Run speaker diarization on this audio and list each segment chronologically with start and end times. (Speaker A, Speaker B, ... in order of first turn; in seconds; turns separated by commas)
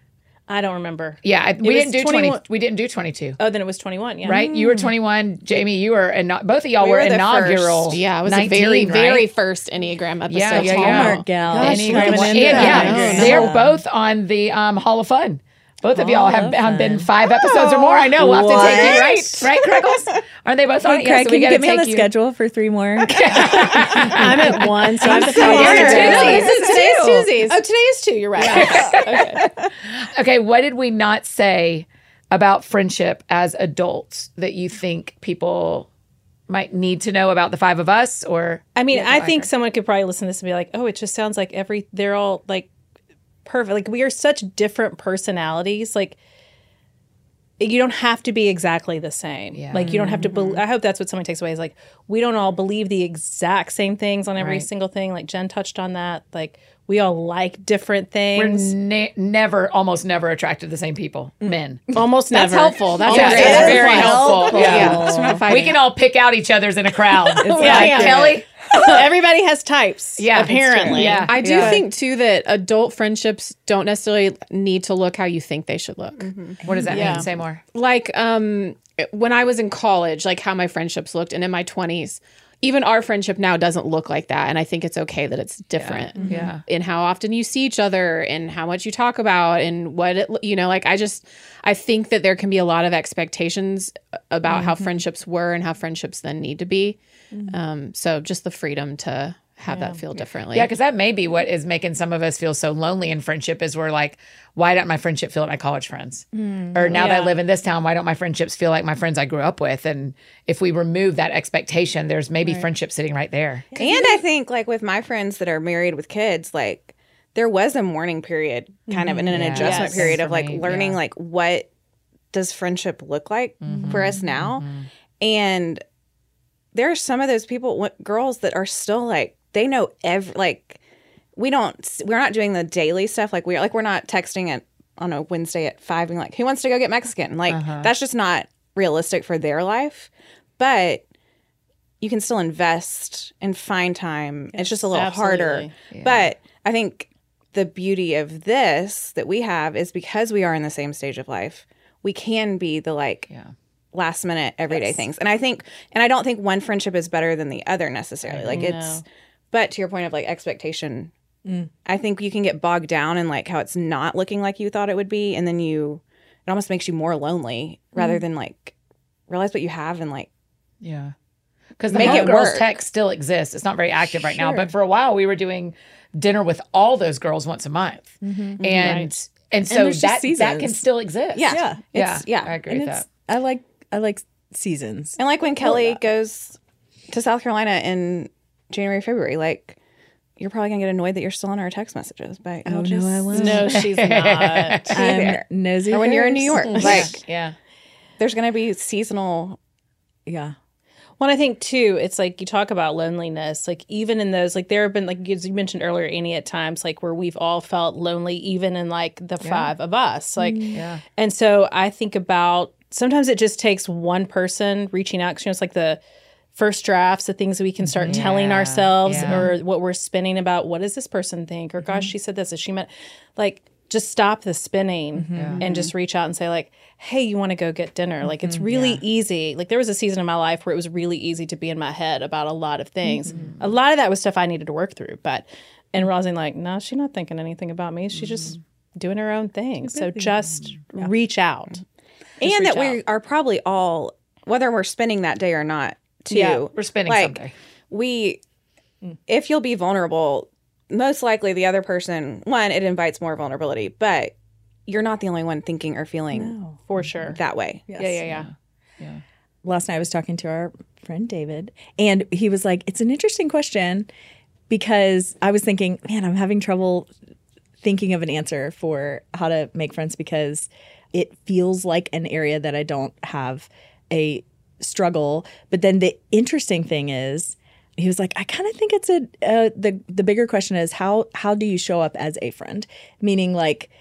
Speaker A: 0.5-2.4, Speaker B: 1.2-3.4, Speaker A: 3.4-4.5, Speaker B: 4.2-9.3, Speaker C: 4.3-4.9, Speaker D: 6.8-8.0, Speaker E: 7.9-13.5, Speaker B: 10.3-22.1, Speaker C: 10.5-13.8, Speaker A: 12.4-13.0, Speaker C: 15.9-19.8, Speaker C: 20.8-26.8, Speaker B: 23.0-27.3, Speaker A: 23.6-26.6, Speaker E: 25.1-27.6, Speaker A: 27.4-29.4, Speaker B: 28.4-35.9, Speaker C: 28.5-29.0, Speaker B: 36.5-39.5, Speaker A: 38.8-42.7, Speaker A: 43.4-46.2, Speaker A: 47.6-58.7, Speaker B: 49.5-50.0, Speaker C: 49.8-50.5, Speaker B: 54.4-54.6, Speaker B: 58.3-61.8, Speaker A: 61.9-64.1, Speaker E: 62.3-65.8, Speaker B: 63.0-69.0, Speaker C: 63.1-65.5, Speaker C: 67.3-68.4, Speaker A: 67.5-71.7, Speaker B: 70.2-71.8, Speaker D: 70.5-71.0, Speaker E: 71.0-76.3, Speaker D: 76.2-76.6, Speaker B: 76.6-77.6, Speaker C: 76.7-77.2, Speaker A: 76.9-77.2, Speaker E: 76.9-77.2, Speaker E: 77.7-100.7, Speaker B: 85.7-86.6, Speaker C: 86.2-86.5, Speaker C: 94.5-94.8, Speaker A: 99.7-100.0, Speaker B: 100.5-113.7, Speaker C: 106.3-107.1, Speaker A: 106.9-107.3, Speaker C: 113.7-114.2, Speaker D: 113.8-121.7, Speaker C: 118.9-119.5, Speaker B: 119.3-121.0, Speaker A: 119.5-120.2, Speaker D: 122.3-124.6, Speaker B: 123.6-124.9, Speaker C: 123.7-124.2, Speaker D: 125.2-125.8, Speaker D: 126.7-130.8, Speaker D: 131.3-141.0, Speaker B: 137.5-137.9, Speaker D: 142.0-153.3, Speaker A: 144.5-145.7, Speaker B: 145.9-146.3, Speaker D: 153.9-161.1, Speaker B: 158.2-158.6, Speaker A: 158.5-159.0, Speaker D: 161.8-168.7, Speaker D: 169.3-170.3, Speaker B: 170.8-171.1, Speaker B: 171.8-183.1, Speaker D: 171.9-172.7, Speaker C: 172.0-172.3, Speaker C: 174.3-174.7, Speaker C: 178.2-179.1, Speaker A: 178.8-179.1, Speaker C: 179.7-180.8, Speaker D: 181.3-182.5, Speaker C: 181.5-181.8, Speaker C: 182.7-186.0, Speaker D: 185.2-186.6, Speaker D: 187.1-189.8, Speaker D: 190.4-193.7, Speaker C: 192.6-193.8, Speaker A: 193.3-195.0, Speaker B: 193.7-195.0, Speaker C: 194.9-197.1, Speaker D: 194.9-197.2, Speaker B: 196.8-197.5, Speaker D: 198.2-199.6, Speaker C: 200.2-200.5, Speaker A: 201.2-216.0, Speaker B: 209.4-209.7, Speaker C: 210.4-210.8, Speaker B: 210.7-211.0, Speaker A: 216.5-241.8, Speaker C: 217.9-218.3, Speaker B: 218.0-219.5, Speaker C: 219.2-219.4, Speaker C: 221.8-222.1, Speaker C: 225.1-225.6, Speaker B: 225.3-225.6, Speaker D: 225.6-225.9, Speaker C: 228.3-228.9, Speaker B: 228.7-229.0, Speaker C: 233.1-233.5, Speaker B: 233.3-233.7, Speaker C: 239.8-241.1, Speaker A: 242.4-243.0, Speaker D: 242.4-247.4, Speaker B: 246.3-247.5, Speaker D: 247.9-248.4, Speaker D: 249.3-254.3, Speaker D: 254.9-256.6, Speaker C: 256.3-256.8, Speaker A: 256.9-257.4, Speaker D: 257.4-257.8, Speaker C: 257.9-258.3, Speaker A: 258.0-258.5, Speaker B: 258.3-259.2, Speaker C: 259.6-264.1, Speaker C: 264.7-267.1, Speaker C: 267.8-283.9